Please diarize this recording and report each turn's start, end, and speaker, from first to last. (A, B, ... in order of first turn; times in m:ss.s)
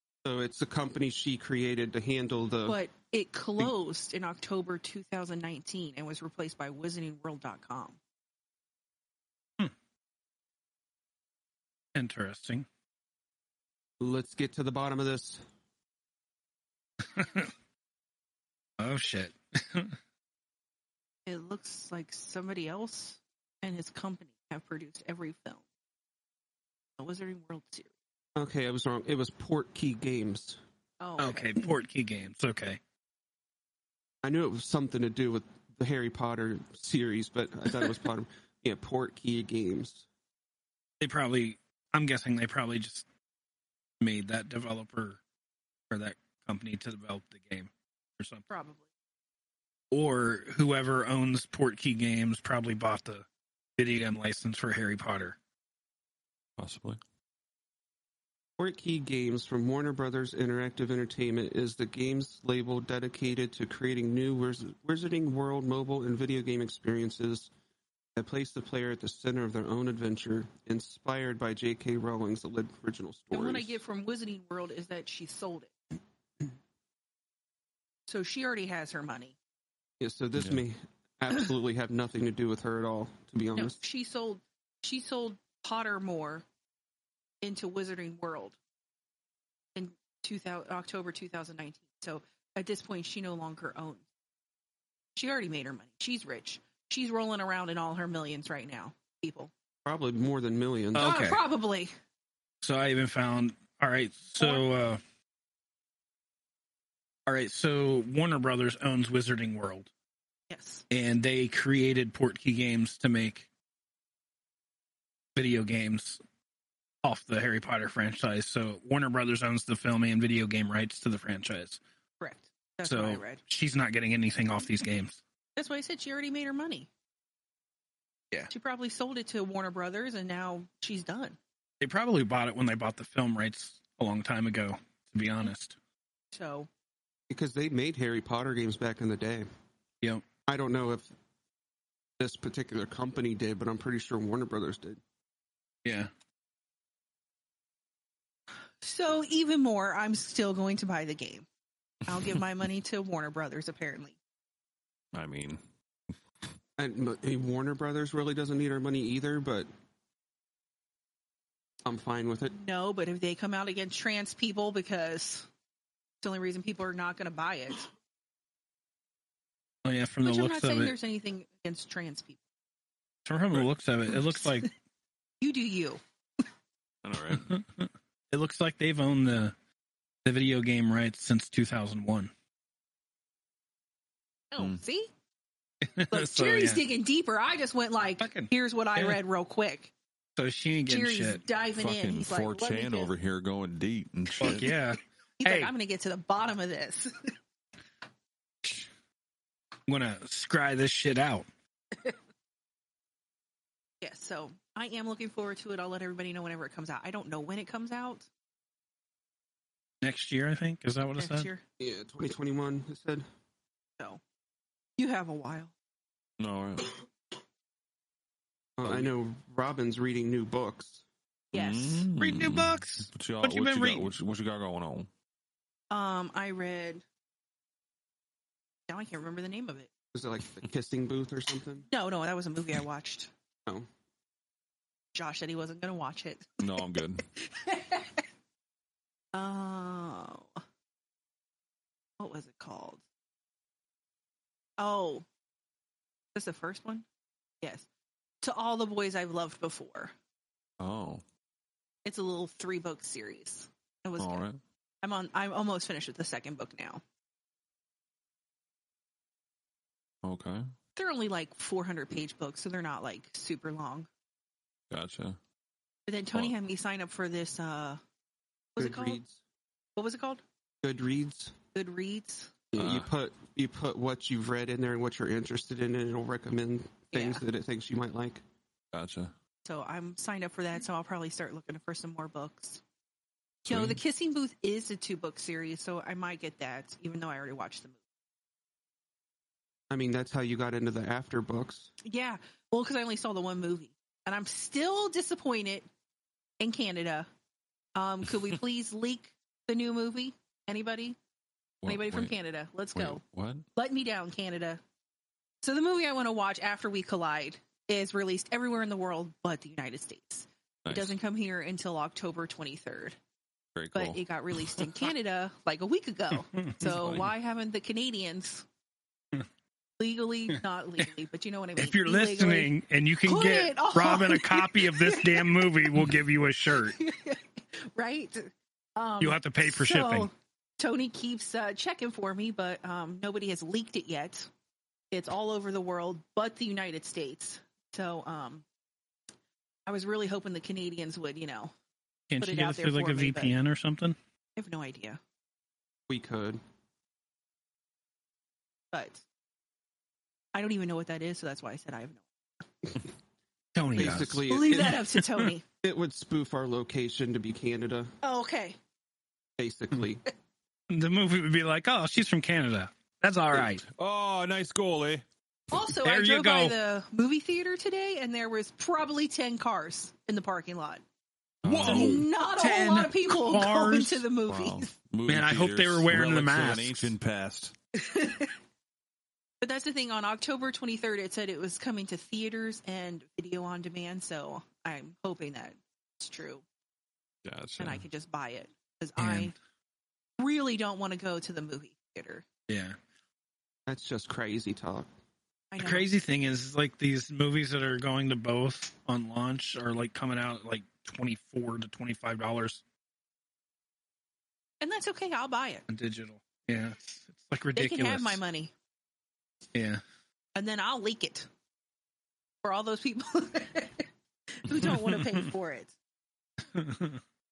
0:00.2-0:02.8 A
0:02.7-0:08.0 B
0:12.0-0:12.7 C
0:14.0-0:15.4 A
0:17.0-0:17.5 C
0:18.8-0:20.0 C
0:21.3-0:25.6 B
0:27.0-0:27.9 B
0:28.4-0:30.6 A
0:31.0-0:31.6 B
0:31.2-0:32.8 C
0:34.2-0:40.1 A
0:41.0-0:43.0 C
0:44.0-0:45.2 C
0:45.9-0:48.5 C
0:48.5-0:48.9 B
0:49.9-0:53.2 C
0:53.8-0:55.4 C
0:56.6-0:57.0 D
0:58.6-1:07.5 A
1:08.2-1:13.8 A
1:13.3-1:15.7 B
1:18.1-1:19.4 B
1:20.0-1:23.8 A
1:20.4-1:20.6 D
1:23.6-1:26.4 B
1:27.4-1:28.6 B
1:29.8-1:34.0 B
1:35.2-1:39.5 B
1:39.8-1:41.1 A
1:41.0-1:41.4 C
1:41.0-1:41.9 B
1:42.6-1:45.0 C
1:47.3-1:49.9 C
1:50.5-1:50.8 B
1:50.9-1:53.5 C
1:55.4-1:56.2 C
1:57.0-2:01.8 C
2:02.2-2:03.4 B
2:02.8-2:05.2 C
2:05.6-2:06.9 B
2:08.5-2:11.4 B
2:11.8-2:15.8 C
2:16.3-2:16.7 B
2:17.3-2:19.5 A
2:20.5-2:21.1 A
2:22.2-2:25.0 A
2:25.8-2:26.1 C
2:28.8-2:31.5 B
2:32.1-2:34.2 B
2:35.1-2:35.6 D
2:36.8-2:39.7 A
2:41.8-2:42.6 A
2:42.5-2:45.5 B
2:46.2-2:47.9 B
2:49.8-2:51.0 C
2:50.2-2:52.4 B
2:53.3-2:54.7 C
2:55.4-2:56.0 B
2:57.0-2:57.6 D
2:57.3-2:59.5 C
3:00.2-3:02.3 C
3:04.5-3:05.1 B
3:05.8-3:06.8 C
3:06.1-3:09.9 B
3:08.2-3:09.2 C
3:10.4-3:11.4 C
3:10.9-3:13.1 B
3:11.8-3:14.7 D
3:14.4-3:14.8 B
3:14.4-3:15.7 C
3:15.4-3:17.3 B
3:19.9-3:21.5 C
3:24.0-3:28.3 B
3:30.0-3:31.5 C
3:31.2-3:31.6 B
3:31.8-3:33.2 A
3:35.0-3:35.7 B
3:36.4-3:37.0 D
3:38.8-3:41.0 A
3:38.8-3:39.1 D
3:41.5-3:42.1 B
3:41.5-3:45.1 D
3:42.2-3:44.1 C
3:45.9-3:47.0 B
3:48.9-3:49.9 B
3:50.1-3:51.9 A
3:51.9-3:53.3 B
3:55.1-3:56.8 B
3:56.6-3:57.2 D
3:57.4-3:58.2 B
3:59.3-4:00.6 B
4:02.2-4:03.0 B
4:04.8-4:05.2 B
4:06.4-4:07.0 B
4:08.4-4:10.1 B
4:10.8-4:11.2 D
4:12.0-4:14.4 B
4:14.2-4:14.6 D
4:15.0-4:17.0 B
4:20.2-4:20.7 D
4:21.0-4:24.1 B
4:24.9-4:25.4 D
4:26.1-4:28.0 B
4:28.8-4:29.2 B
4:28.8-4:29.4 A
4:30.0-4:30.4 B
4:30.8-4:31.6 A
4:31.7-4:32.5 B
4:32.7-4:38.4 A
4:32.8-4:33.1 D
4:37.1-4:37.4 B
4:38.9-4:39.3 D
4:39.6-4:42.8 B
4:43.6-4:44.0 D
4:43.7-4:48.0 B
4:49.9-4:51.9 A
4:52.0-4:55.9 B
4:56.6-4:57.3 B
4:58.0-5:01.2 B
5:01.8-5:02.3 D
5:01.8-5:03.2 B
5:03.0-5:03.6 D
5:03.8-5:04.8 B
5:05.6-5:13.2 B
5:10.9-5:11.2 D
5:13.8-5:14.8 D
5:13.9-5:18.7 B
5:16.5-5:16.8 C
5:16.8-5:17.3 D
5:20.0-5:22.7 B
5:21.8-5:27.0 C
5:23.3-5:25.9 B
5:26.7-5:34.5 B
5:29.2-5:30.3 C
5:35.1-5:38.6 B
5:39.9-5:41.7 B
5:42.3-5:44.2 C
5:42.4-5:43.5 B
5:44.6-5:45.2 B
5:46.1-5:46.6 A
5:48.9-5:49.2 B
5:50.5-5:52.2 B
5:53.8-5:55.5 C
5:54.0-5:55.0 A
5:54.5-5:55.6 B
5:55.8-5:58.1 A
5:58.2-5:58.8 B
5:59.6-6:00.2 A
6:00.9-6:03.8 C
6:03.5-6:05.2 D
6:05.7-6:11.0 B
6:05.9-6:06.8 C
6:11.6-6:12.3 D
6:11.6-6:14.2 C
6:11.8-6:14.9 B
6:14.5-6:17.7 D
6:15.3-6:17.2 C
6:18.0-6:18.5 B
6:19.6-6:26.6 B
6:27.4-6:28.0 D
6:27.8-6:29.5 B
6:29.2-6:29.5 C
6:30.4-6:32.4 B
6:32.7-6:33.0 C
6:33.9-6:35.1 A
6:35.7-6:36.1 B
6:35.8-6:42.8 C
6:44.8-6:45.8 B
6:45.9-6:48.4 C
6:47.8-6:48.7 B
6:49.7-6:50.0 C
6:50.6-6:51.5 B
6:52.6-6:55.9 B
6:54.8-6:55.4 C
6:56.8-6:57.2 C